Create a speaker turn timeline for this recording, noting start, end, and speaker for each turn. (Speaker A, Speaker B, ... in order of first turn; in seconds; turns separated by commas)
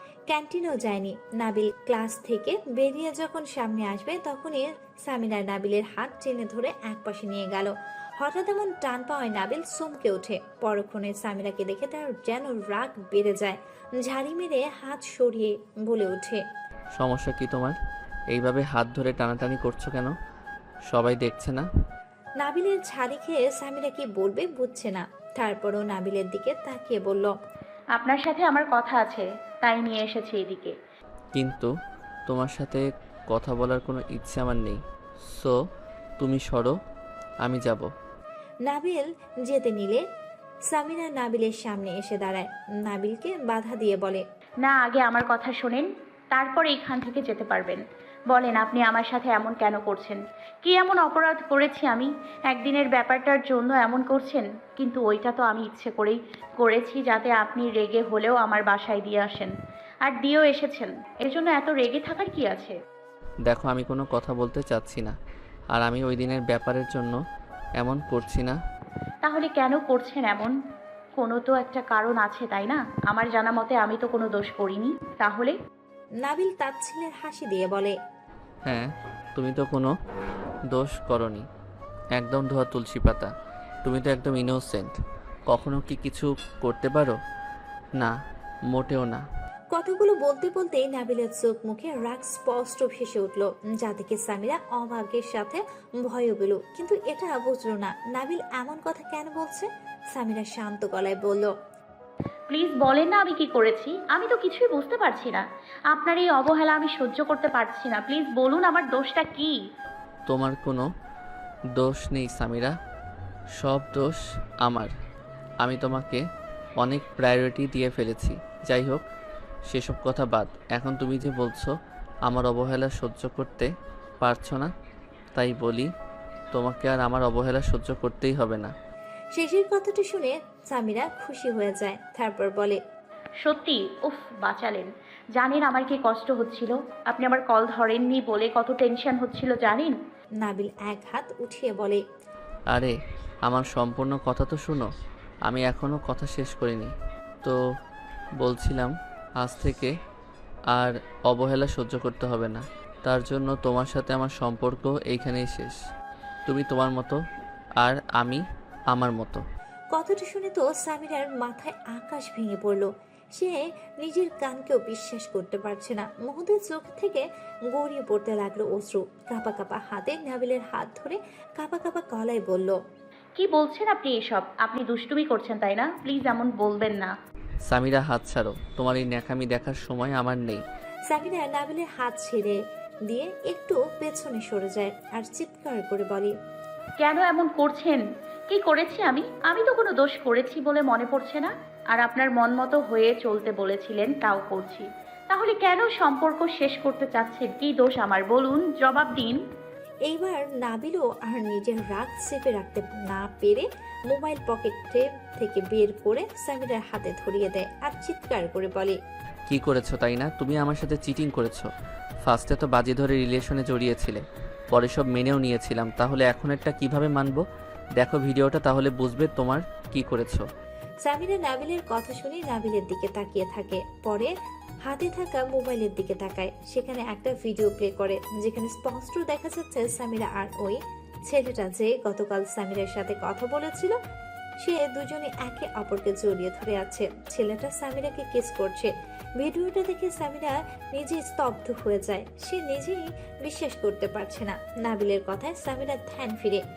Speaker A: 0.3-16.4, Speaker B: 17.0-17.8, Speaker B: 18.3-20.1, Speaker B: 20.9-21.7, Speaker A: 22.4-27.3, Speaker C: 28.0-30.7, Speaker B: 31.3-31.7, Speaker B: 32.3-34.8, Speaker B: 36.2-36.7, Speaker B: 37.4-37.9, Speaker A: 38.7-40.0, Speaker A: 40.7-44.2, Speaker C: 44.6-47.8, Speaker C: 48.3-59.5, Speaker C: 60.0-62.8, Speaker B: 63.5-65.1, Speaker B: 65.7-67.2, Speaker B: 67.8-68.6, Speaker C: 69.2-70.5, Speaker C: 71.2-75.5, Speaker A: 76.2-78.0, Speaker B: 78.7-79.9, Speaker B: 80.7-81.5, Speaker B: 82.2-83.3, Speaker B: 83.8-85.0, Speaker B: 85.5-87.2, Speaker B: 88.7-89.2, Speaker A: 89.7-101.5, Speaker C: 102.5-109.6, Speaker B: 110.3-110.9, Speaker B: 111.8-112.7, Speaker B: 113.6-114.9, Speaker B: 115.6-116.2, Speaker B: 116.8-119.0, Speaker B: 119.7-121.7, Speaker B: 122.3-123.7, Speaker B: 124.2-124.7, Speaker B: 125.3-125.9, Speaker B: 126.5-128.7, Speaker A: 129.4-132.8, Speaker C: 133.4-139.9, Speaker A: 140.4-142.0, Speaker B: 143.4-144.9, Speaker B: 145.5-146.9, Speaker B: 148.4-149.9, Speaker B: 150.7-155.8, Speaker B: 156.5-157.2, Speaker B: 157.8-159.4, Speaker A: 159.9-172.8, Speaker C: 173.4-177.1, Speaker B: 177.7-180.6, Speaker A: 181.1-186.3, Speaker C: 187.0-199.4, Speaker A: 200.1-209.0, Speaker B: 209.5-211.7, Speaker B: 212.2-214.2, Speaker B: 214.7-217.4, Speaker B: 218.0-220.5, Speaker A: 221.0-224.3, Speaker A: 224.9-234.0, Speaker A: 234.6-246.6